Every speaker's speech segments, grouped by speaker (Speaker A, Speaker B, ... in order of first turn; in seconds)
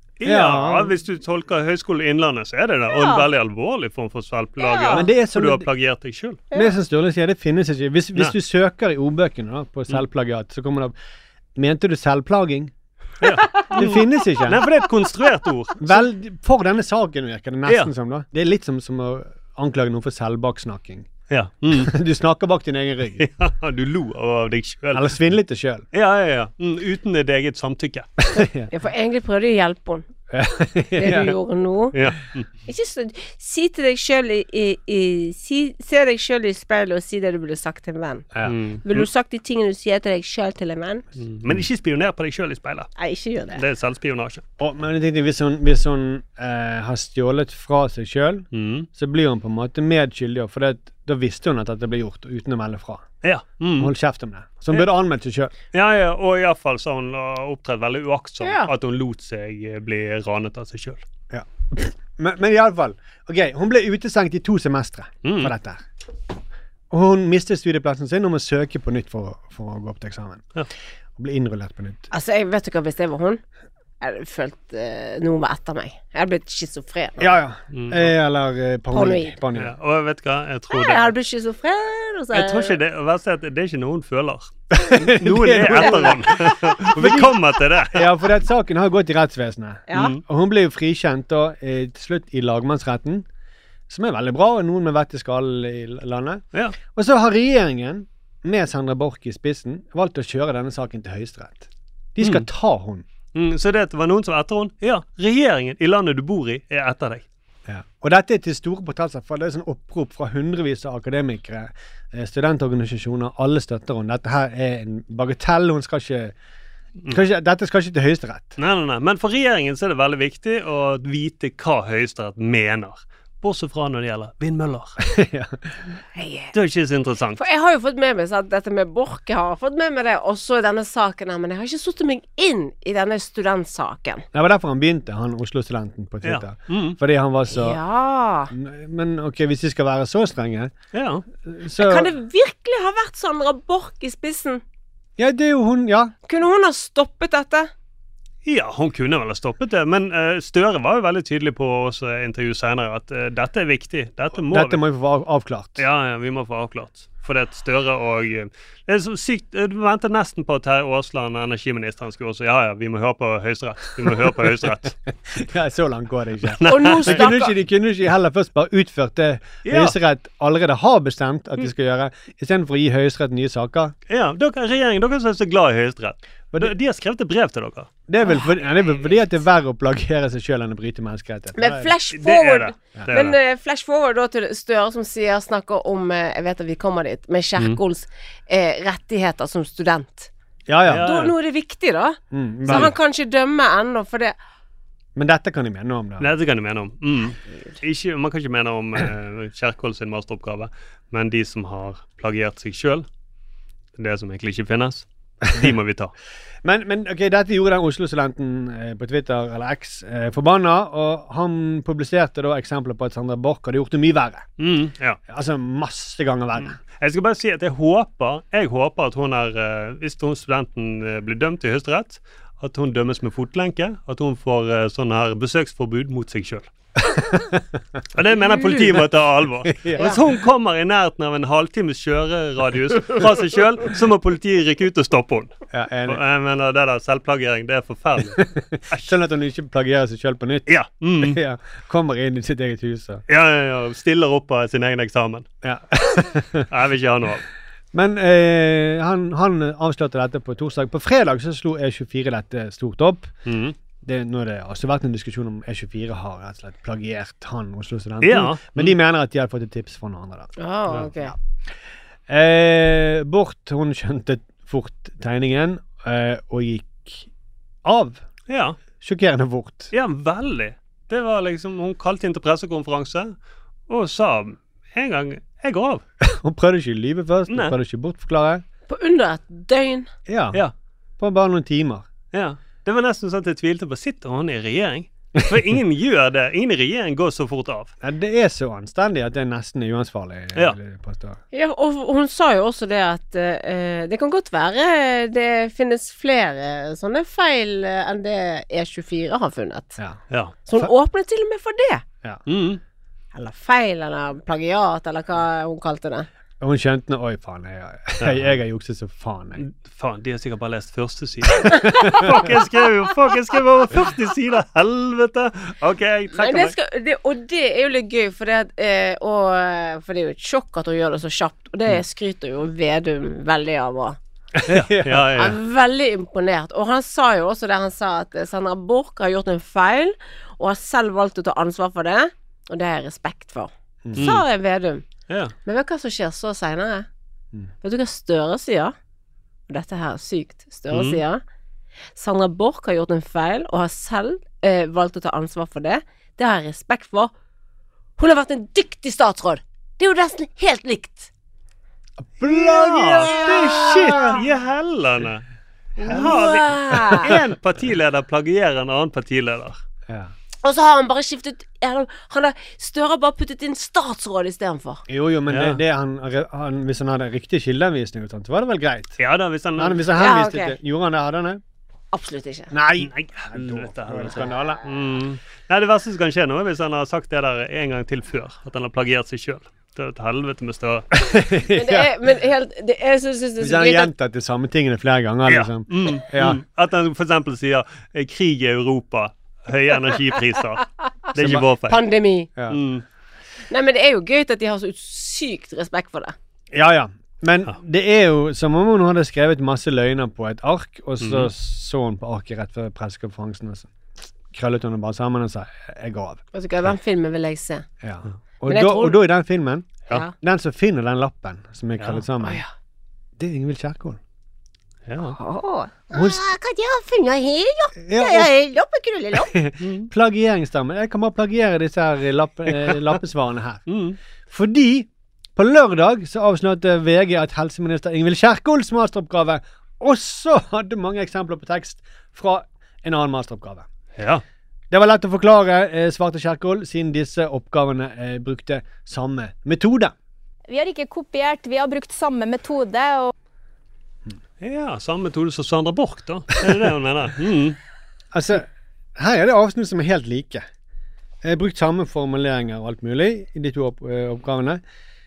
Speaker A: 0.2-6.4, 13.2-16.1, 21.3-21.9, 23.2-25.2, 25.9-28.1, 31.9-32.5, 38.4-39.1, 41.2-42.9, 43.5-44.4, 48.5-48.9, 53.2-53.9, 55.7-61.0, 65.2-65.5, 77.7-78.1, 79.5-81.1, 82.3-88.1, 89.9-90.2, 102.2-102.5, 103.3-107.2, 118.6-125.0, 126.5-127.4, 136.2-137.0, 140.9-141.2, 148.4-154.8, 155.8-164.9, 166.5-167.3, 169.6-169.9, 174.1-177.9, 182.1-183.4, 190.9-191.3, 196.2-203.1, 203.9-206.1, 214.6-215.2, 216.6-226.7, 228.1-235.5, 236.0-239.1, 240.7-241.4, 243.3-245.5, 246.7-247.4, 253.4-253.8, 258.2-258.9, 268.5-268.8, 269.9-273.3, 273.9-276.0, 277.5-277.7, 282.3-287.9, 302.5-302.8, 308.2-308.5, 309.6-316.7, 324.7-325.6, 334.1-334.4, 335.3-335.5, 340.9-341.2, 352.4-355.4, 356.1-359.8, 365.5-365.8, 369.2-370.0, 373.0-381.1, 385.5-392.0, 392.7-393.0, 401.2-401.5, 412.0-412.2, 415.1-415.4, 419.8-420.1, 423.9-424.2, 434.2-434.4, 444.6-447.8
Speaker B: 0.2-0.9, 4.9-5.7, 6.5-10.9, 11.6-12.7, 13.7-14.6, 15.8-21.1, 21.7-23.3, 24.9-25.8, 28.3-28.7, 30.3-31.3, 44.6-53.0, 53.8-55.5, 61.3-65.8, 66.9-70.5, 71.2-72.1, 77.2-79.7, 84.8-87.3, 87.9-93.2, 93.9-103.0, 107.7-116.3, 117.1-118.6, 125.0-125.6, 134.3-137.8, 138.5-140.7, 141.4-142.1, 145.2-146.1, 154.5-155.8, 165.3-173.9, 178.1-181.9, 190.7-191.1, 192.3-192.9, 195.2-196.3, 206.6-214.5, 215.3-216.8, 227.0-227.6, 229.6-230.2, 235.7-236.2, 238.3-243.2, 245.6-246.7, 247.9-253.3, 254.0-260.5, 262.3-267.3, 267.8-268.2, 269.0-269.9, 276.2-278.6, 280.3-280.6, 281.2-282.1, 288.0-291.4, 306.6-309.6, 311.6-312.4, 324.6-325.4, 352.2-354.4, 360.1-360.3, 365.1-369.2, 369.8-371.6, 372.7-374.8, 381.1-382.1, 383.6-386.6, 391.3-391.6, 392.6-392.8, 396.7-403.9, 404.5-406.4, 408.0-412.6, 413.4-414.2, 416.1-416.4, 418.0-418.5, 419.3-423.9, 424.5-433.9, 434.9-440.1, 448.3-450.6, 451.4-454.8
Speaker C: 2.9-3.3, 4.6-5.0, 28.7-30.1, 31.0-31.9, 32.6-38.3, 38.8-41.0, 43.0-43.6, 58.4-58.7, 72.1-73.4, 74.0-77.3, 78.9-79.4, 80.7-82.8, 85.8-86.3, 89.9-90.1, 126.1-126.5, 127.3-134.2, 137.5-138.5, 141.8-144.6, 146.3-147.7, 166.7-167.5, 178.2-178.6, 181.5-190.3, 191.0-194.3, 260.6-261.3, 278.9-280.1, 291.5-300.0, 300.6-302.0, 303.3-306.3, 316.3-324.2, 325.3-335.1, 335.6-337.1, 337.8-338.9, 339.7-341.4, 342.1-347.3, 348.2-351.3, 353.2-354.4, 356.0-357.3, 360.6-365.0, 370.2-370.8, 372.1-372.7, 381.7-384.1, 391.9-392.5, 393.7-396.3, 406.5-407.9, 408.6-409.2, 415.3-419.5
Speaker D: 440.7-443.3